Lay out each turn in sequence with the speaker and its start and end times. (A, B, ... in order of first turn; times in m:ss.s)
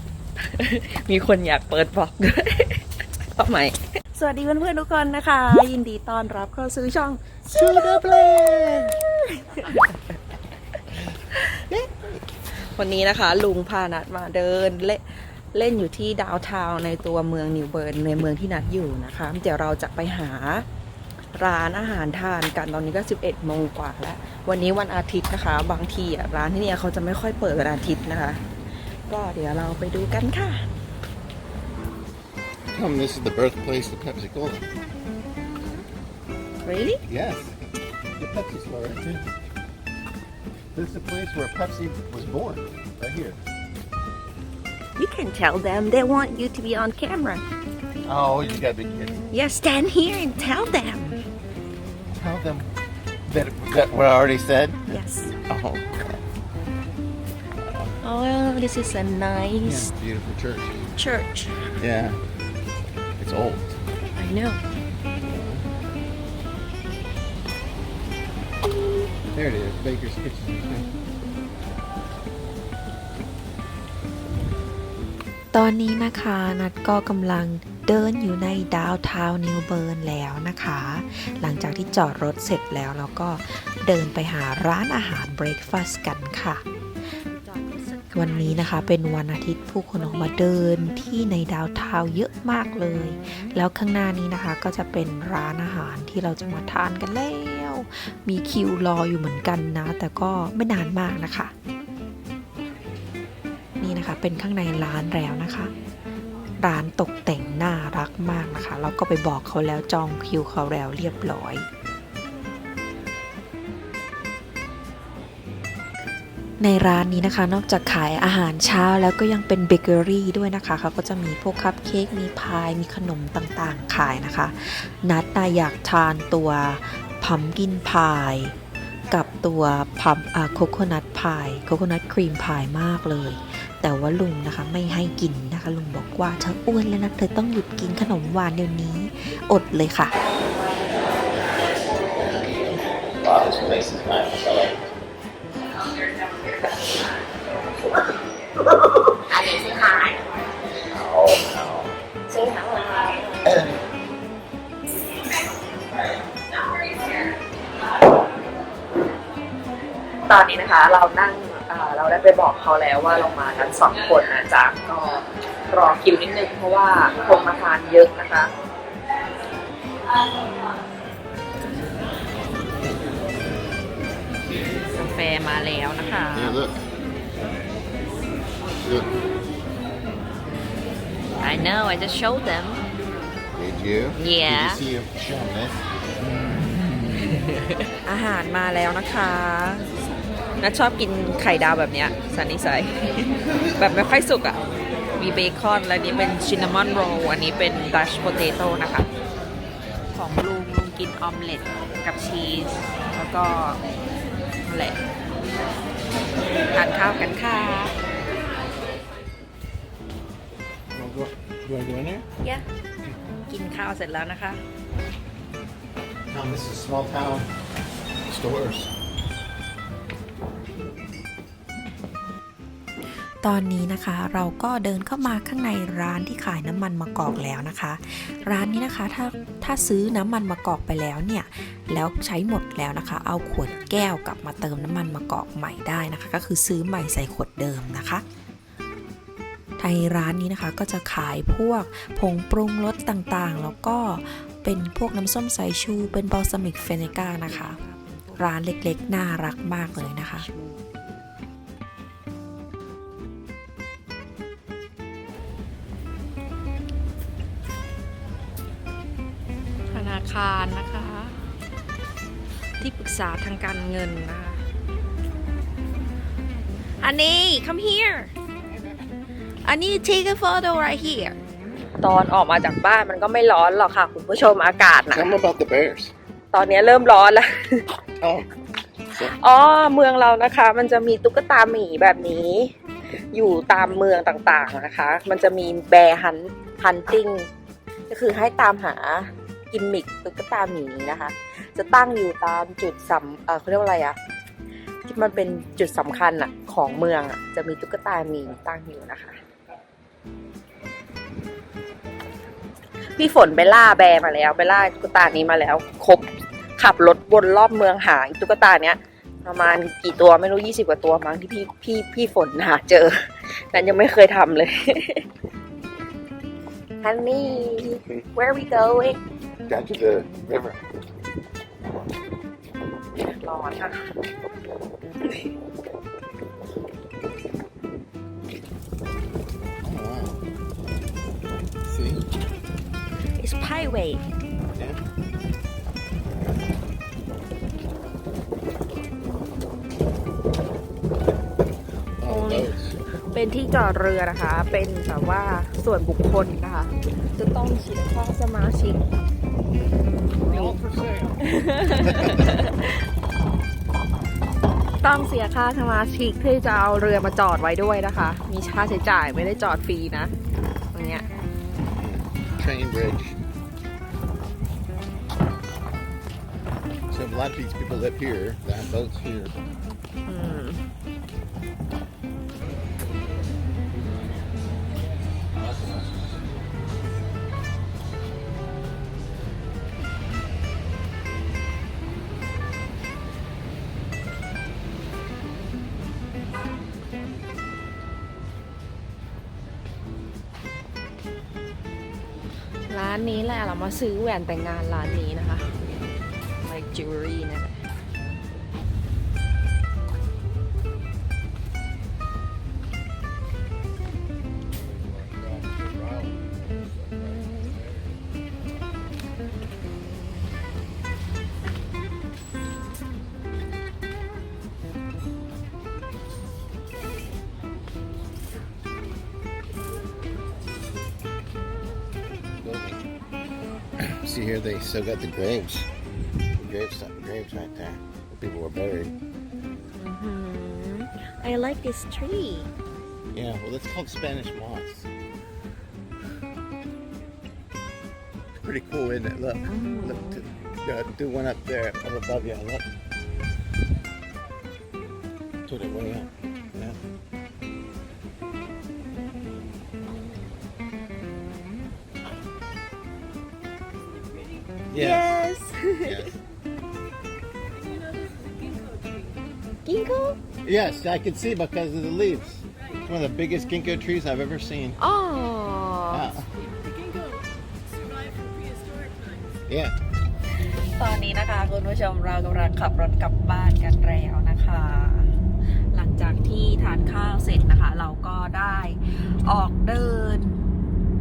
0:00.4-0:09.9 A
0:07.5-0:09.0 B
0:11.3-0:11.9 A
0:12.5-0:20.6 A
0:21.4-0:28.4 A
0:29.0-0:30.6 A
0:32.7-0:34.7 B
0:36.6-0:37.0 A
0:37.1-0:37.5 B
0:38.2-0:39.3 B
0:40.7-0:43.4 B
0:45.0-0:47.4 A
0:48.0-0:49.3 B
0:49.3-0:51.2 A
0:52.1-0:52.7 B
0:53.3-0:54.8 B
0:54.9-0:55.4 A
0:55.5-0:56.2 B
0:57.6-0:58.0 B
0:58.0-0:59.9 A
0:59.6-1:00.8 B
1:00.9-1:01.7 A
1:01.8-1:02.2 B
1:03.2-1:03.8 B
1:04.2-1:04.6 A
1:05.2-1:05.7 B
1:09.3-1:10.9 B
1:15.5-1:26.6 C
1:27.3-1:28.8 A
1:28.1-1:41.5 C
1:29.9-1:30.4 A
1:43.8-1:45.7 C
1:46.6-1:51.6 C
1:56.6-2:08.5 C
2:09.1-2:20.1 C
2:22.2-2:24.8 B
2:29.2-2:30.4 A
2:30.9-2:31.9 B
2:32.3-2:33.6 A
2:33.4-2:33.8 B
2:40.3-2:48.5 A
2:54.9-2:56.6 A
2:56.3-2:56.8 B
2:58.8-2:59.1 B
3:01.4-3:02.8 A
3:03.5-3:05.8 B
3:04.2-3:04.8 A
3:07.5-3:09.9 A
3:10.6-3:14.6 A
3:15.2-3:19.1 A
3:20.1-3:23.8 A
3:24.6-3:25.0 A
3:26.7-3:27.9 A
3:30.9-3:32.2 B
3:33.5-3:34.6 A
3:36.3-3:37.5 B
3:38.3-3:38.9 B
3:43.1-3:58.2 C
3:59.8-4:07.8 C
4:06.7-4:08.6 A
4:08.3-4:10.5 C
4:09.9-4:10.8 A
4:19.9-4:21.3 A
4:22.8-4:24.6 A
4:27.0-4:28.3 A
4:29.6-4:31.4 A
4:32.0-4:35.4 A
4:35.1-4:36.1 B
4:36.5-4:37.8 A
4:38.2-4:38.5 B
4:39.1-4:39.3 B
4:39.2-4:47.5 A
4:48.1-4:54.2 A
4:55.0-4:59.4 A
5:03.2-5:06.2 A
5:06.8-5:15.2 A
5:17.0-5:19.2 A
5:19.7-5:20.8 B
5:23.4-5:24.0 A
5:29.8-5:30.4 B
5:31.8-5:32.2 B
5:33.4-5:34.2 A
5:34.8-5:35.0 B
5:42.2-5:43.0 B
5:42.2-5:42.7 A
5:43.2-5:49.0 A
5:50.4-5:52.5 B
5:50.5-5:50.8 A
5:51.4-5:53.0 A
5:55.0-6:00.3 A
6:00.9-6:01.2 A
6:02.0-6:03.4 B
6:07.1-6:09.6 B
6:10.3-6:10.8 A
6:32.9-6:35.7 A
6:36.6-6:37.8 A
7:02.6-7:03.0 B
7:04.0-7:05.9 B
7:06.5-7:09.1 B
7:10.0-7:12.7 A
7:13.3-7:15.1 B
7:18.6-7:22.9 B
7:19.6-7:20.4 A
7:25.7-7:27.0 B
7:34.9-7:35.4 B
7:35.0-7:36.3 A
7:36.0-7:36.4 B
7:39.8-7:40.4 A
7:40.6-7:45.0 B
7:45.0-7:46.3 A
7:46.1-7:46.5 B
7:49.7-7:50.0 B
7:50.7-8:00.7 A